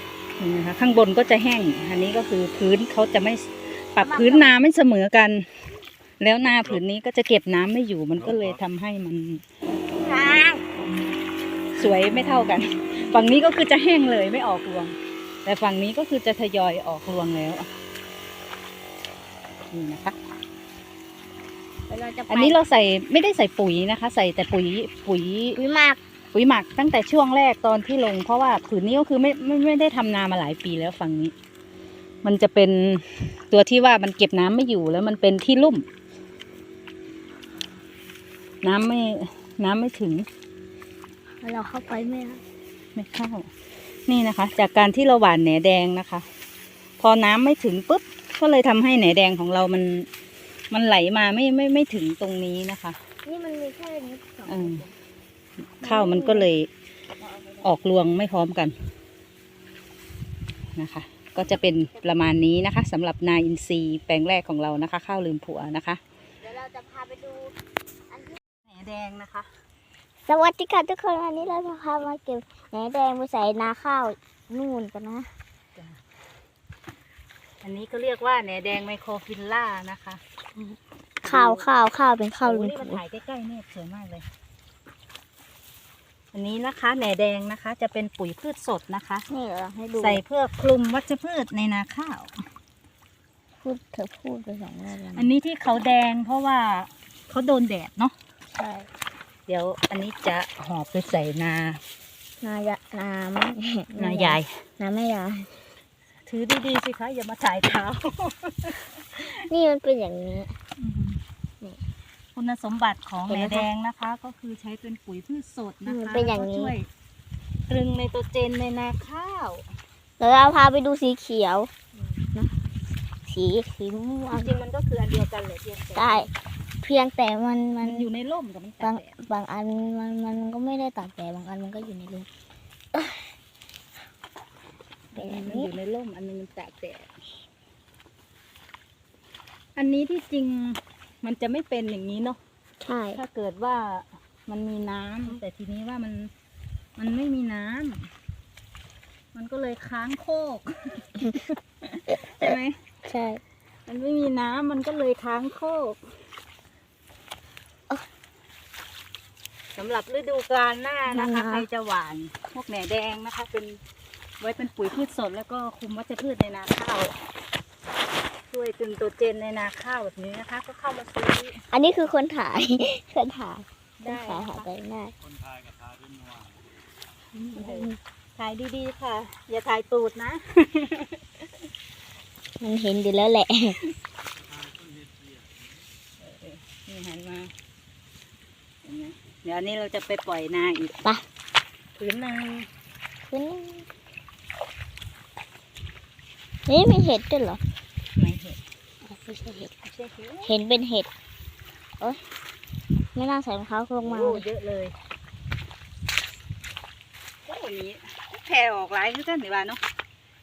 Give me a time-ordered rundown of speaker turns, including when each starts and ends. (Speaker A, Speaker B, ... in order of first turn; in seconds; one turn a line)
Speaker A: 0.4-5.5
Speaker B: 4.0-4.5
Speaker A: 6.2-9.4
Speaker B: 9.9-10.6
Speaker A: 11.8-17.7
Speaker A: 19.7-20.1
Speaker B: 21.9-22.6
Speaker A: 22.3-25.6
Speaker B: 25.6-26.0
Speaker A: 26.3-31.3
Speaker A: 32.2-35.9
Speaker A: 38.6-40.2
Speaker B: 41.4-42.4
Speaker A: 42.9-43.5
Speaker A: 44.1-46.2
Speaker A: 47.0-50.1
Speaker A: 50.7-53.0
Speaker B: 53.2-55.0
Speaker A: 54.5-54.8
Speaker A: 55.8-56.7
Speaker B: 55.8-56.5
Speaker B: 57.2-57.7
Speaker A: 57.6-58.7
Speaker A: 60.8-66.0
Speaker B: 61.6-62.1
Speaker B: 66.4-67.5
Speaker B: 68.1-68.4
Speaker A: 68.7-69.5
Speaker B: 70.3-75.3
Speaker A: 77.6-80.2
Speaker B: 80.5-83.0
Speaker A: 81.2-81.7
Speaker A: 82.4-84.2
Speaker A: 86.3-89.3
Speaker B: 89.3-90.2
Speaker A: 90.0-92.4
Speaker B: 93.6-95.3
Speaker A: 95.1-98.1
Speaker B: 98.5-98.9
Speaker A: 99.5-101.8
Speaker B: 102.4-105.5
Speaker A: 104.0-104.6
Speaker A: 106.2-109.3
Speaker B: 109.2-110.5
Speaker A: 110.8-111.2
Speaker A: 112.3-116.9
Speaker B: 113.3-113.7
Speaker B: 115.8-116.7
Speaker A: 117.7-119.7
Speaker B: 120.2-121.7
Speaker B: 123.3-124.5
Speaker A: 124.3-126.3
Speaker B: 126.0-126.3
Speaker B: 126.8-128.1
Speaker A: 127.8-129.1
Speaker B: 128.8-132.3
Speaker A: 135.1-137.1
Speaker B: 135.1-135.7
Speaker A: 139.8-142.4
Speaker B: 142.8-143.2
Speaker A: 143.1-146.3
Speaker A: 147.0-148.1
Speaker A: 149.3-152.8
Speaker B: 153.1-153.4
Speaker A: 153.9-156.0
Speaker A: 159.8-163.8
Speaker B: 161.1-161.6
Speaker A: 164.4-167.1
Speaker A: 168.5-171.6
Speaker B: 171.7-175.1
Speaker A: 174.0-174.7
Speaker C: 175.3-176.5
Speaker B: 177.4-177.9
Speaker A: 177.5-181.4
Speaker B: 182.6-183.8
Speaker C: 184.5-185.4
Speaker A: 186.2-187.5
Speaker A: 188.8-191.0
Speaker A: 192.0-192.7
Speaker B: 193.3-193.8
Speaker B: 196.7-197.6
Speaker A: 198.2-198.6
Speaker B: 199.1-199.7
Speaker A: 199.8-200.5
Speaker B: 200.4-201.1
Speaker B: 203.1-204.4
Speaker A: 204.0-204.9
Speaker A: 207.4-209.8